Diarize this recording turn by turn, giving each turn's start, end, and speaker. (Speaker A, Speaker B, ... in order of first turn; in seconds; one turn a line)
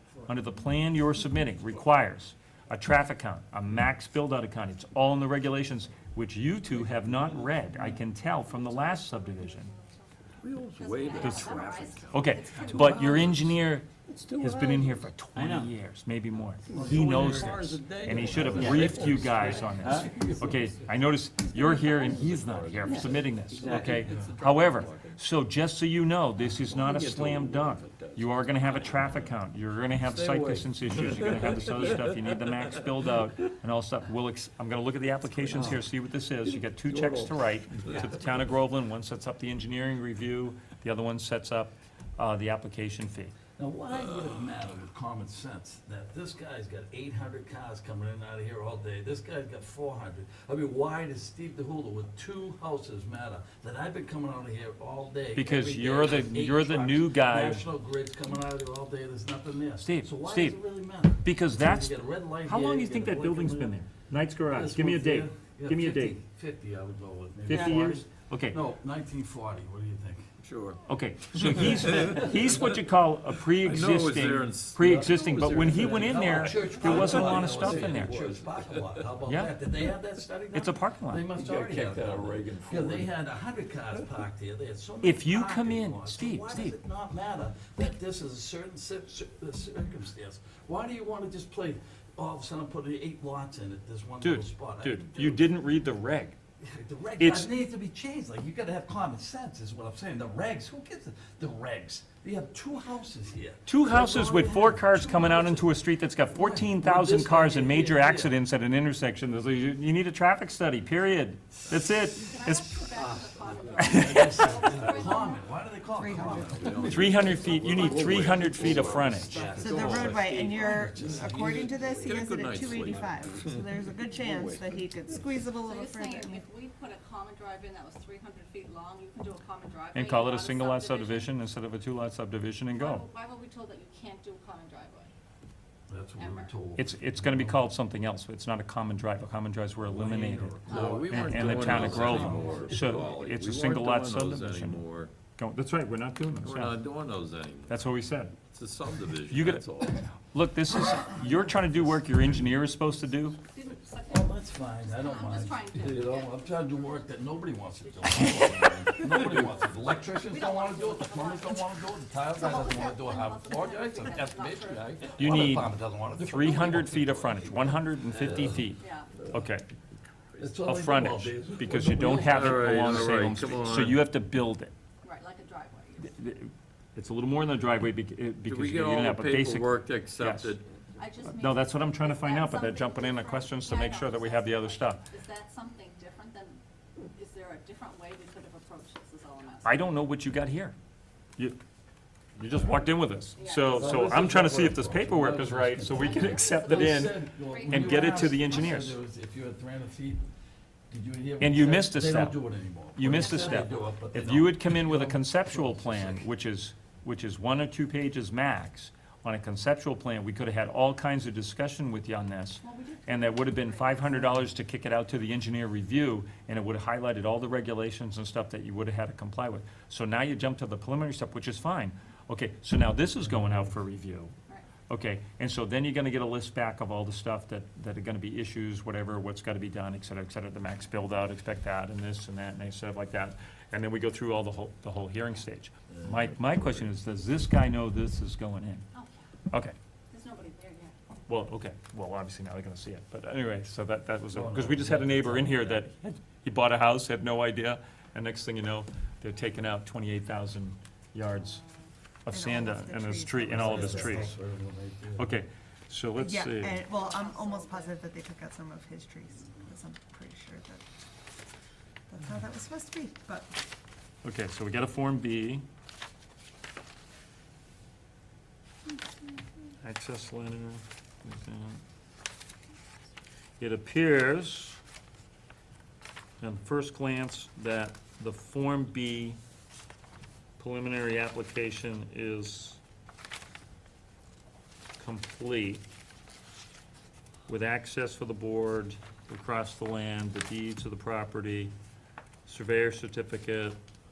Speaker A: 0.2-9.7
Speaker B: 8.2-10.1
Speaker C: 10.4-12.3
Speaker B: 10.7-13.6
Speaker A: 11.1-11.6
Speaker A: 12.1-43.3
Speaker D: 12.6-13.4
Speaker C: 14.1-14.8
Speaker C: 16.7-19.9
Speaker D: 16.7-17.6
Speaker D: 18.1-20.8
Speaker B: 19.3-19.7
Speaker C: 21.6-25.2
Speaker D: 23.6-24.3
Speaker C: 26.5-29.3
Speaker C: 30.1-32.8
Speaker C: 36.9-37.3
Speaker D: 43.6-63.8
Speaker A: 55.4-57.7
Speaker A: 59.8-60.6
Speaker A: 61.2-66.2
Speaker D: 64.4-70.2
Speaker A: 67.5-68.6
Speaker E: 67.5-67.8
Speaker C: 70.4-70.8
Speaker A: 70.9-78.2
Speaker C: 71.6-72.6
Speaker D: 72.0-72.3
Speaker C: 73.5-79.0
Speaker D: 74.8-95.5
Speaker A: 79.2-79.5
Speaker A: 80.5-81.2
Speaker C: 81.3-83.1
Speaker A: 85.0-86.7
Speaker A: 94.2-96.3
Speaker D: 96.6-105.7
Speaker A: 97.2-97.5
Speaker A: 103.7-112.9
Speaker D: 106.3-108.4
Speaker B: 112.2-115.7
Speaker A: 113.8-114.5
Speaker D: 113.8-117.8
Speaker C: 114.7-115.1
Speaker E: 116.0-117.1
Speaker C: 116.0-121.1
Speaker A: 116.8-119.5
Speaker E: 117.8-118.2
Speaker D: 119.1-122.2
Speaker E: 119.5-126.4
Speaker C: 121.9-125.3
Speaker D: 122.8-123.1
Speaker B: 125.5-131.3
Speaker A: 129.9-133.0
Speaker B: 132.7-135.1
Speaker D: 135.9-137.6
Speaker B: 136.2-136.5
Speaker A: 136.8-144.8
Speaker C: 139.8-145.1
Speaker B: 140.7-141.9
Speaker D: 140.7-143.1
Speaker A: 145.4-146.8
Speaker C: 146.4-150.0
Speaker A: 147.7-148.3
Speaker A: 149.3-153.4
Speaker B: 153.4-161.8
Speaker D: 154.1-168.7
Speaker B: 162.3-165.6
Speaker A: 165.2-169.6
Speaker B: 168.8-169.1
Speaker D: 170.4-173.5
Speaker A: 170.6-174.7
Speaker C: 172.0-174.1
Speaker B: 175.0-176.2
Speaker A: 176.0-180.5
Speaker C: 178.4-180.7
Speaker B: 181.0-186.6
Speaker A: 181.3-185.0
Speaker B: 187.1-189.8
Speaker A: 189.6-190.7
Speaker A: 192.3-199.0
Speaker B: 193.4-194.0
Speaker D: 193.8-200.2
Speaker B: 195.8-198.9
Speaker D: 200.9-206.2
Speaker A: 201.4-202.4
Speaker A: 202.9-224.3
Speaker B: 203.0-203.7
Speaker B: 212.6-214.4
Speaker A: 224.9-238.8
Speaker B: 238.9-239.3
Speaker B: 240.1-240.9
Speaker A: 241.3-251.6
Speaker D: 244.3-245.8
Speaker B: 251.6-251.8
Speaker A: 252.3-254.3
Speaker E: 252.3-254.3
Speaker D: 253.5-255.3
Speaker A: 255.2-256.8
Speaker E: 256.2-260.8
Speaker B: 256.8-258.0
Speaker E: 262.1-263.5
Speaker A: 264.2-265.6
Speaker A: 269.8-271.8
Speaker A: 273.6-274.8
Speaker A: 276.4-279.4
Speaker A: 280.6-282.8
Speaker A: 285.0-285.8
Speaker A: 287.5-291.7
Speaker A: 292.4-293.8